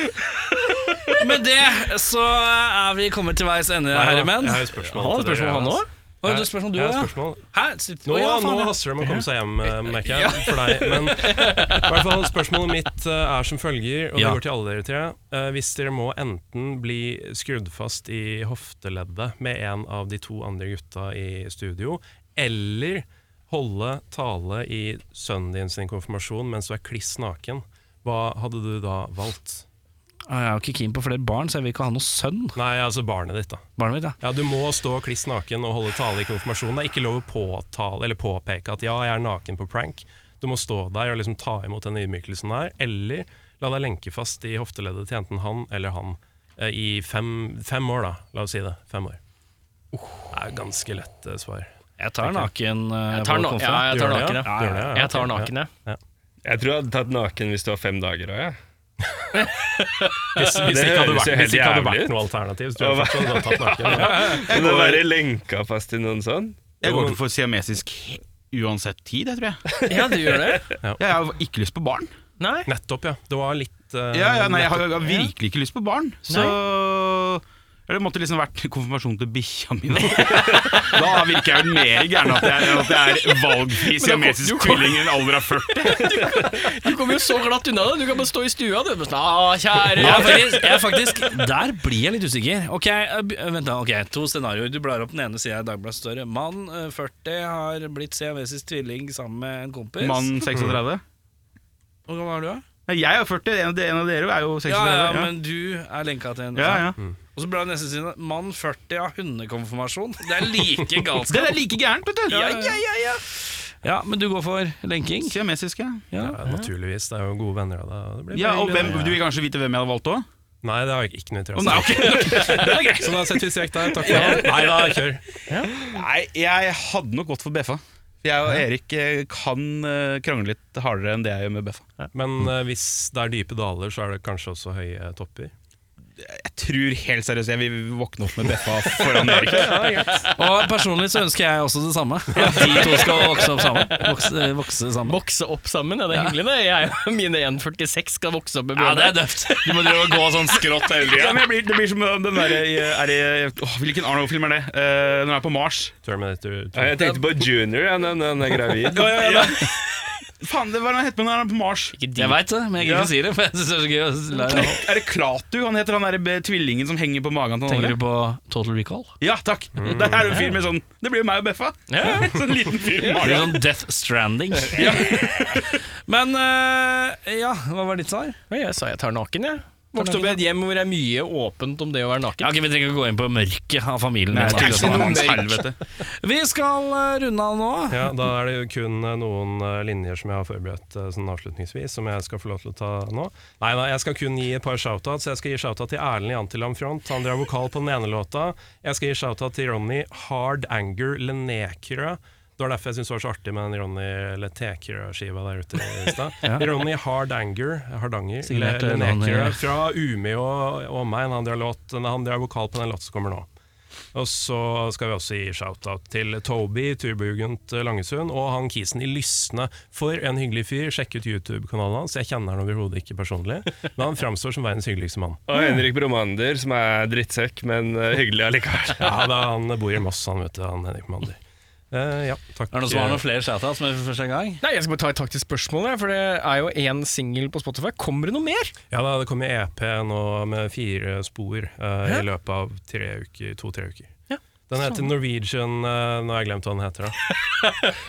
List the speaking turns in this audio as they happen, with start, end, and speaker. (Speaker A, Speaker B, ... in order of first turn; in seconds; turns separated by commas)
Speaker A: 1.1-4.7, Speaker B: 3.9-7.4, Speaker C: 4.8-5.9, Speaker A: 6.2-8.8, Speaker B: 8.0-29.6, Speaker C: 11.3-11.8, Speaker A: 14.2-14.4, Speaker A: 30.3-32.6, Speaker B: 32.5-33.6, Speaker A: 33.8-34.2, Speaker B: 34.2-49.2, Speaker B: 50.3-52.5, Speaker A: 52.0-55.0, Speaker C: 53.1-55.7, Speaker B: 53.9-56.0, Speaker D: 56.4-58.6, Speaker B: 59.0-59.5, Speaker C: 59.3-60.6, Speaker B: 60.3-64.4, Speaker D: 60.7-62.2, Speaker D: 62.8-66.7, Speaker E: 64.2-65.1, Speaker E: 66.8-69.6, Speaker B: 66.8-67.2, Speaker C: 69.9-70.7, Speaker E: 71.0-72.1, Speaker C: 72.4-72.7, Speaker B: 72.7-74.9, Speaker E: 74.1-86.2, Speaker C: 76.3-76.6, Speaker C: 83.9-90.9, Speaker A: 90.0-100.3, Speaker E: 100.0-101.0, Speaker A: 102.1-102.6, Speaker E: 102.9-105.3, Speaker A: 104.6-111.6, Speaker E: 106.5-107.0, Speaker E: 111.2-112.6, Speaker A: 112.3-112.8, Speaker C: 112.3-113.2, Speaker A: 113.8-115.4, Speaker E: 115.2-116.1, Speaker A: 116.1-116.4, Speaker B: 116.1-119.2, Speaker E: 118.3-120.2, Speaker B: 120.6-125.2, Speaker E: 121.5-123.1, Speaker A: 124.0-124.9, Speaker C: 124.0-124.5, Speaker C: 125.5-125.7, Speaker E: 125.8-131.8, Speaker B: 132.1-135.5, Speaker E: 136.2-139.8, Speaker B: 139.3-140.2, Speaker C: 139.5-140.2, Speaker A: 140.3-145.2, Speaker C: 142.3-144.2, Speaker C: 145.0-150.6, Speaker A: 148.8-151.5, Speaker E: 151.1-155.9, Speaker B: 156.0-157.1, Speaker D: 156.7-159.1, Speaker E: 158.9-159.7, Speaker A: 158.9-159.6, Speaker E: 160.4-161.9, Speaker C: 161.9-162.4, Speaker A: 162.2-164.8, Speaker E: 162.8-163.1, Speaker E: 164.5-168.0, Speaker A: 167.7-169.1, Speaker E: 169.2-173.6, Speaker B: 169.8-170.3, Speaker C: 171.9-172.3, Speaker A: 173.2-178.4, Speaker E: 174.7-175.7, Speaker C: 178.5-182.5, Speaker A: 179.9-180.4, Speaker A: 182.4-185.3, Speaker E: 184.3-185.8, Speaker C: 184.4-185.6, Speaker A: 186.1-188.1, Speaker B: 187.9-213.5, Speaker A: 208.4-209.6, Speaker B: 214.1-225.4, Speaker D: 225.5-229.2, Speaker B: 229.0-231.4, Speaker B: 231.9-233.2, Speaker A: 232.7-234.6, Speaker C: 234.6-238.7, Speaker B: 238.9-244.1, Speaker C: 244.3-245.1, Speaker B: 244.7-247.2, Speaker C: 247.6-247.9